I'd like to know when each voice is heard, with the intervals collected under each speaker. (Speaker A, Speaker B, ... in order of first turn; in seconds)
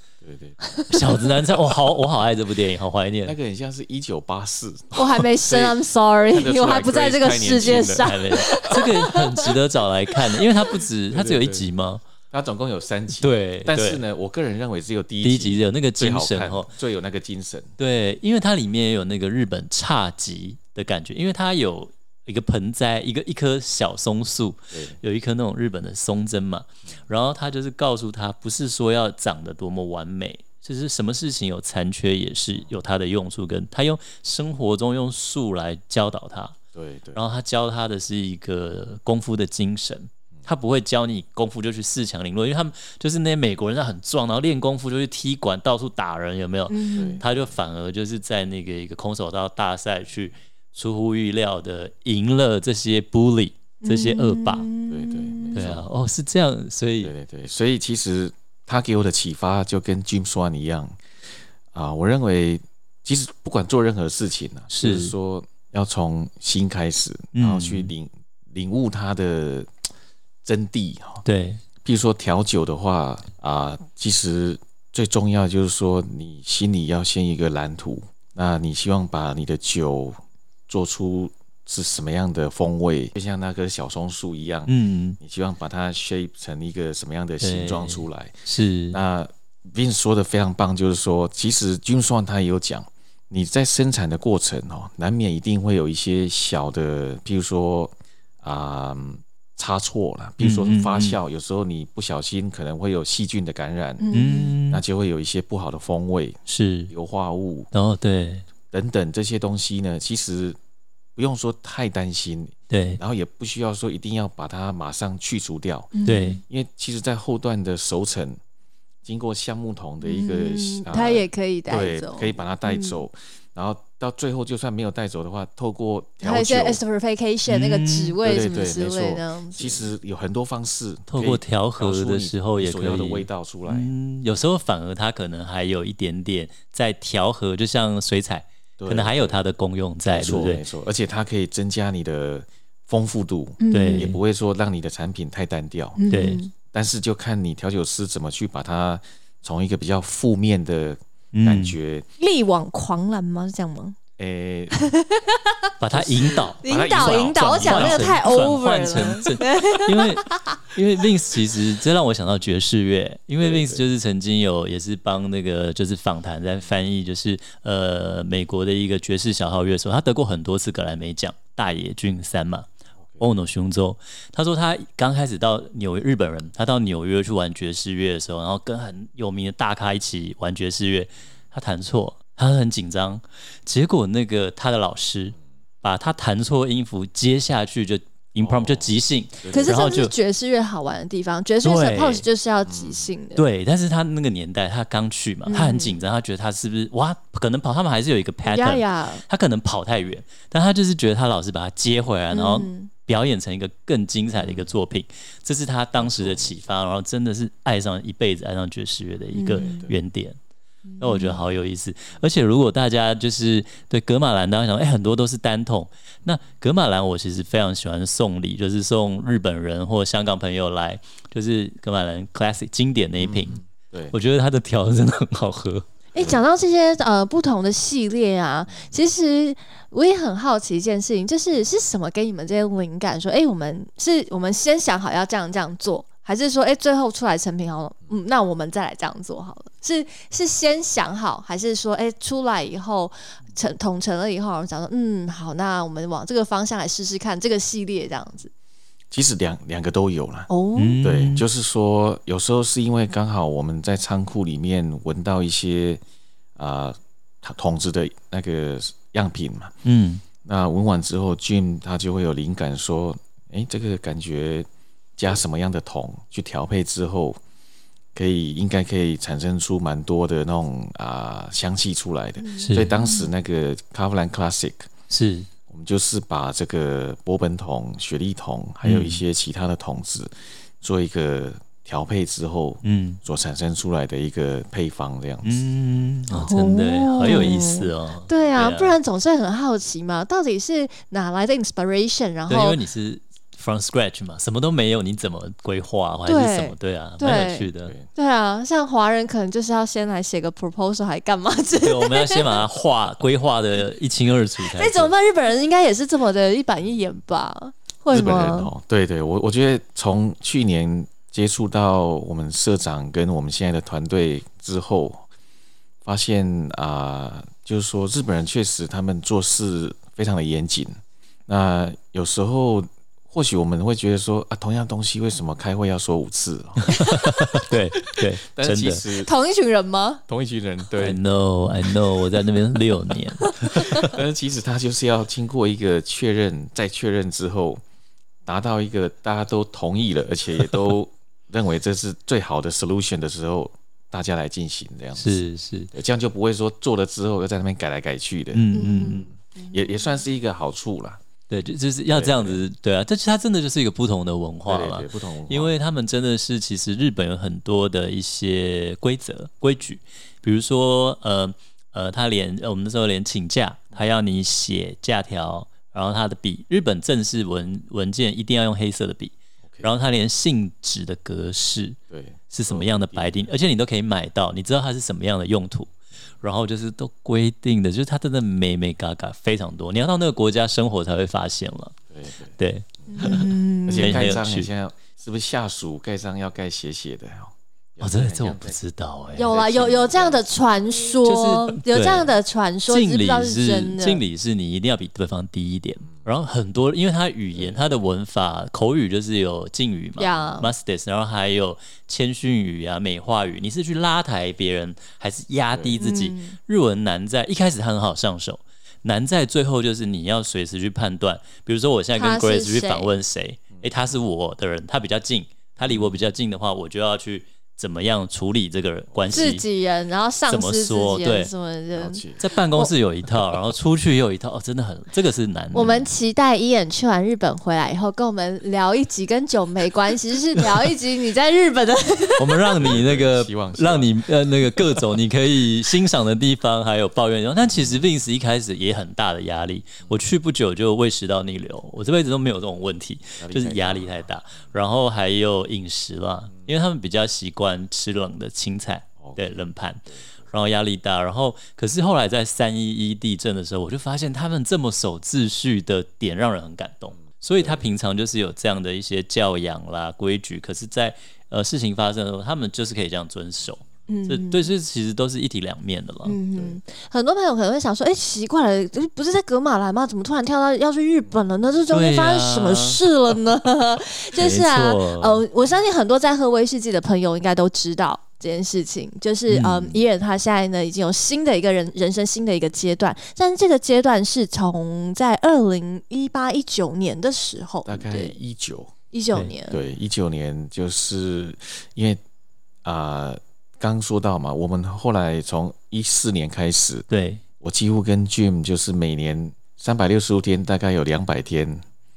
Speaker A: 0.2-0.6, 3.2-5.8, 6.3-8.1, 11.1-11.7, 12.3-17.7, 24.7-25.0, 36.7-37.2, 47.0-47.4, 54.9-55.9, 57.0-61.0, 61.7-69.7, 70.4-71.2, 71.8-80.2, 80.7-88.3, 88.9-104.1, 104.7-106.4, 106.9-107.7, 108.7-110.6, 111.2-115.9, 116.5-118.4, 119.0-126.8, 128.2-133.9, 138.8-139.4, 140.1-146.1, 146.7-152.1, 154.2-154.7, 155.9-158.3, 163.4-163.8, 188.4-189.8, 192.7-193.1, 204.4-204.7, 206.0-206.6, 209.6-209.9, 223.2-224.2, 226.2-226.4, 249.1-250.5, 251.0-256.0, 256.6-259.7, 260.4-267.4, 268.1-274.9, 275.7-285.6, 287.3-287.5, 308.1-315.3, 316.0-327.2, 328.2-329.3, 330.3-331.2, 333.7-337.8, 338.5-351.2, 352.1-352.6, 354.7-355.8, 372.1-373.5, 382.1-388.8, 389.4-390.5, 397.5-398.0, 405.7-406.0, 413.7-414.1, 415.9-416.2, 419.2-419.6, 421.9-422.4, 432.8-434.1, 434.8-435.1, 437.6-438.1, 443.4-444.3, 449.2-449.5, 457.6-457.9, 487.9-488.9, 489.7-492.2, 492.8-497.1, 497.6-501.8
Speaker B: 0.9-3.4, 8.0-12.0, 13.2-14.0, 15.2-16.7, 17.8-36.6, 37.1-54.7, 55.5-57.1, 64.7-65.1, 67.3-67.9, 71.2-71.6, 84.7-85.2, 87.4-89.0, 100.4-101.2, 104.1-104.8, 106.5-106.9, 107.7-108.5, 112.7-113.0, 116.1-116.4, 127.5-128.2, 131.1-140.6, 143.7-144.2, 146.1-146.4, 151.3-151.8, 155.8-172.7, 173.2-190.1, 191.6-192.3, 193.3-210.4, 211.0-223.6, 224.1-225.9, 250.8-251.5, 259.8-260.2, 272.6-272.9, 275.1-275.5, 278.8-279.2, 282.8-283.2, 285.4-289.0, 292.5-298.0, 301.8-305.1, 326.8-329.0, 331.0-334.1, 340.6-340.9, 345.2-345.9, 348.5-349.3, 351.5-372.0, 372.5-382.0, 382.6-384.7, 388.0-389.5, 391.2-392.3, 392.9-419.6, 420.5-421.5, 422.4-426.1, 432.4-466.4, 471.9-473.0, 474.4-475.4, 479.5-480.0, 497.1-497.4
Speaker C: 5.0-9.5, 46.7-47.2, 53.8-55.6, 104.0-104.5, 115.9-116.4, 120.0-123.0, 126.2-129.9, 143.6-144.1, 146.0-146.5, 152.2-154.0, 154.7-155.5, 156.6-160.6, 189.5-193.4, 195.5-196.0, 198.4-199.2, 202.3-202.9, 209.3-209.8, 210.9-211.4, 226.1-248.5, 250.5-251.0, 272.4-273.3, 286.3-292.8, 296.3-302.6, 304.6-308.7, 329.2-330.2, 333.6-334.1, 348.7-349.9, 383.1-384.4, 389.4-394.2, 400.2-400.7, 406.0-406.6, 412.1-413.1, 419.3-422.2, 425.7-432.8, 464.1-464.7, 466.2-488.4, 489.1-489.8